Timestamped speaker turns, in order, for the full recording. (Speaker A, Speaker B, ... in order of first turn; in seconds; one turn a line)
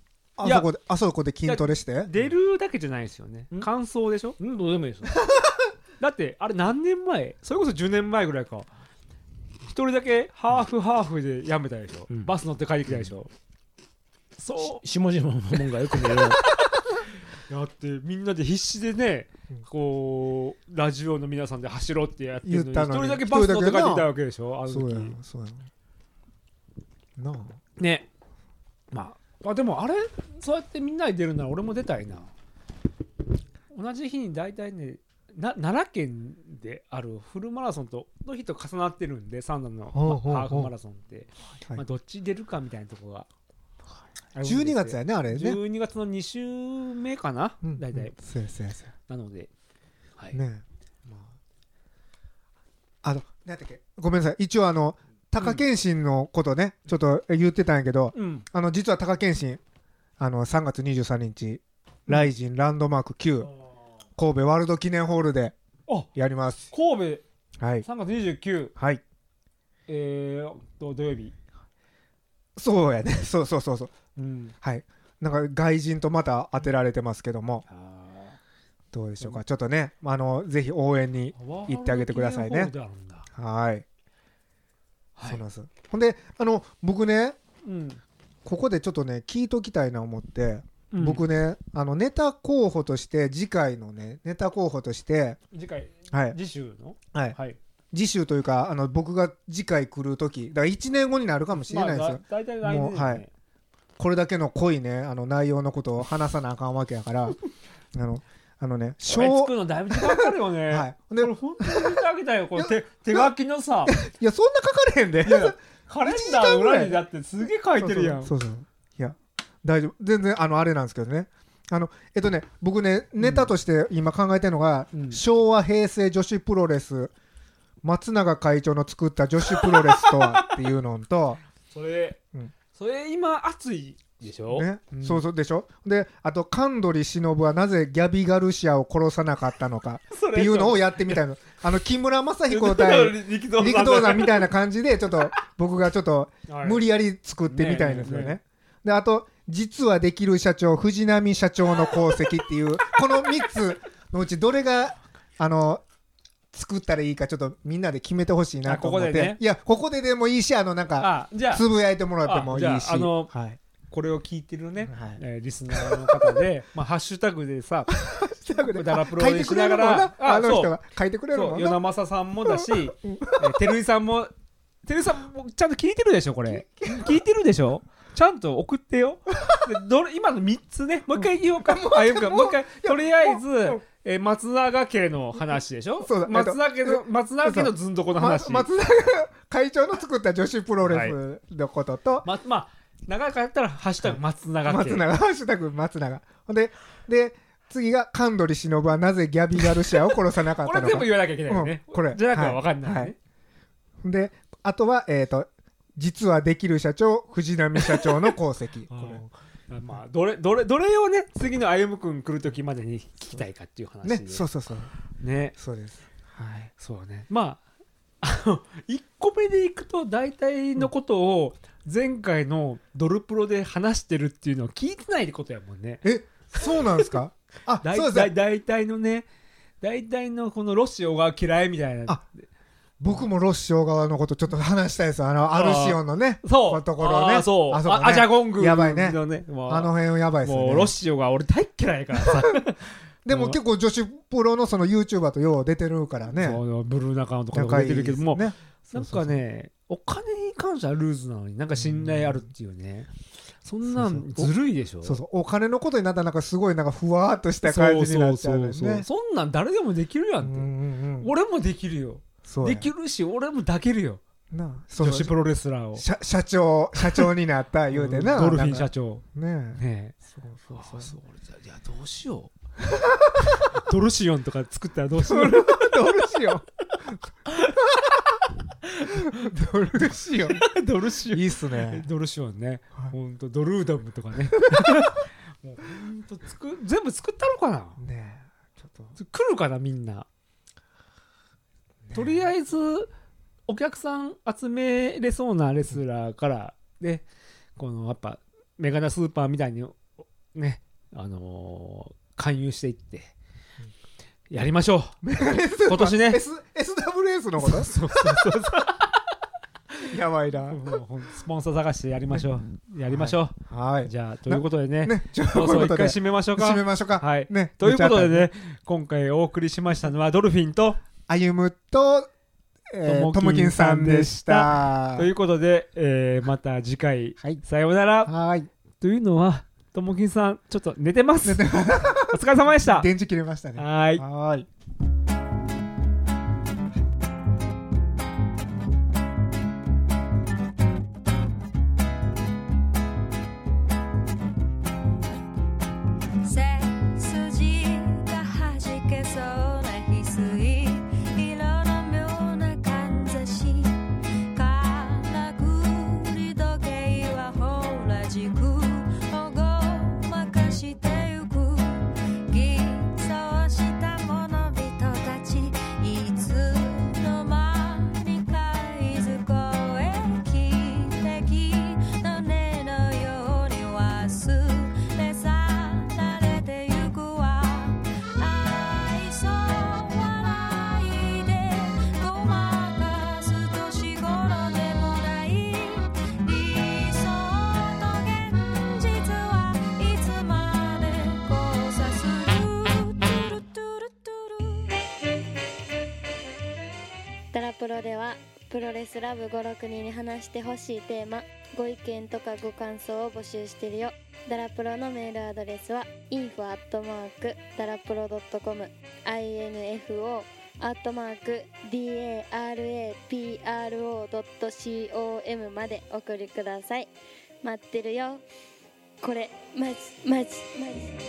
Speaker A: 0.4-2.1
Speaker B: 0.4-0.7
Speaker B: 1.5-4.4
Speaker C: 4.4-5.2
Speaker B: 6.0-8.7
Speaker B: 9.7-13.3
Speaker B: 14.4-14.8
Speaker C: 14.6-16.5
Speaker B: 15.6-25.2
Speaker A: 22.4-24.1
Speaker A: 24.7-25.7
Speaker A: 27.2-27.6
Speaker B: 27.8-28.1
Speaker B: 28.9-32.3
Speaker B: 33.7-43.3
Speaker A: 39.9-40.7
Speaker B: 44.4-48.1
Speaker A: 44.4-45.6
Speaker A: 47.6-48.9
Speaker B: 49.1-49.5
Speaker A: 50.3-51.4
Speaker A: 53.0-59.6
Speaker B: 58.1-58.4
Speaker A: 60.2-63.5
Speaker A: 64.2-65.5
Speaker A: 66.2-66.7
Speaker B: 66.7-67.2
Speaker A: 67.6-67.9
Speaker B: 67.8-68.7
Speaker A: 68.8-69.0
Speaker B: 69.9-71.3
Speaker A: 72.6-73.9
Speaker B: 74.2-74.5
Speaker A: 74.6-77.6
Speaker B: 77.7-78.4
Speaker A: 78.9-82.7
Speaker B: 81.3-83.3
Speaker A: 83.3-83.8
Speaker B: 85.2-85.4
Speaker A: 85.2-87.4
Speaker B: 87.6-88.0
Speaker A: 88.5-95.4
Speaker B: 90.9-91.2
Speaker B: 95.5-97.6
Speaker A: 96.1-96.4
Speaker A: 97.9-103.2
Speaker B: 101.5-103.3
Speaker A: 104.0-107.4
Speaker A: 107.9-112.0
Speaker B: 109.1-114.0
Speaker A: 112.5-113.3
Speaker A: 113.9-117.0
Speaker B: 115.2-118.3
Speaker A: 117.8-127.1
Speaker B: 123.2-123.5
Speaker B: 124.9-125.2
Speaker A: 127.8-131.4
Speaker B: 129.6-130.5
Speaker B: 131.7-132.2
Speaker B: 132.7-135.2
Speaker A: 134.5-155.8
Speaker B: 140.1-141.2
Speaker B: 142.5-144.5
Speaker B: 146.5-146.9
Speaker B: 147.5-148.4
Speaker A: 156.5-163.6
Speaker B: 158.7-159.4
Speaker B: 161.0-161.7
Speaker B: 162.2-163.3
Speaker B: 163.9-168.0
Speaker A: 164.9-165.2
Speaker A: 165.7-166.4
Speaker A: 167.9-171.8
Speaker B: 168.6-170.7
Speaker B: 171.3-174.3
Speaker A: 172.5-173.5
Speaker B: 174.9-188.7
Speaker A: 176.4-177.2
Speaker A: 179.4-179.6
Speaker A: 181.1-183.8
Speaker A: 185.6-192.3
Speaker B: 190.8-191.2
Speaker B: 192.2-195.1
Speaker A: 194.0-203.1
Speaker B: 200.6-203.2
Speaker A: 204.0-209.3
Speaker B: 207.8-208.3
Speaker B: 208.9-214.5
Speaker A: 214.0-214.9
Speaker B: 215.2-215.6
Speaker A: 215.6-216.7
Speaker B: 216.8-217.6
Speaker B: 218.2-226.1
Speaker A: 226.0-228.3
Speaker B: 226.6-226.8
Speaker B: 227.8-229.3
Speaker B: 229.8-232.4
Speaker A: 233.0-240.9
Speaker B: 235.5-243.6
Speaker A: 242.2-242.6
Speaker A: 243.2-246.6
Speaker B: 246.4-253.1
Speaker A: 247.5-249.4
Speaker A: 251.8-252.5
Speaker B: 253.6-255.2
Speaker A: 253.9-259.1
Speaker B: 257.6-264.2
Speaker A: 260.4-261.3
Speaker A: 262.4-262.9
Speaker A: 264.5-265.4
Speaker B: 265.0-266.1
Speaker A: 266.0-271.2
Speaker B: 267.9-269.2
Speaker B: 269.8-270.2
Speaker B: 270.7-272.5
Speaker A: 272.8-273.6
Speaker B: 273.5-276.2
Speaker A: 275.1-278.2
Speaker B: 279.0-279.5
Speaker A: 279.1-280.7
Speaker B: 280.5-288.0
Speaker A: 281.2-282.1
Speaker A: 284.6-285.1
Speaker A: 288.0-289.2
Speaker B: 289.2-290.3
Speaker A: 292.1-292.5
Speaker B: 292.1-293.1
Speaker B: 293.7-297.2
Speaker B: 297.8-303.3
Speaker B: 304.5-305.1
Speaker A: 305.2-308.4
Speaker B: 305.9-306.4
Speaker B: 307.6-309.1
Speaker A: 310.0-310.8
Speaker B: 310.7-321.0
Speaker A: 313.1-318.5
Speaker A: 321.3-322.3
Speaker A: 322.9-325.3
Speaker B: 323.1-328.3
Speaker A: 328.3-328.7
Speaker B: 329.0-333.1
Speaker A: 331.4-334.7
Speaker B: 333.8-334.2
Speaker D: 346.4-354.0
Speaker D: 354.5-395.0
Speaker E: 397.5-417.1
Speaker E: 417.6-418.4
Speaker E: 419.2-421.1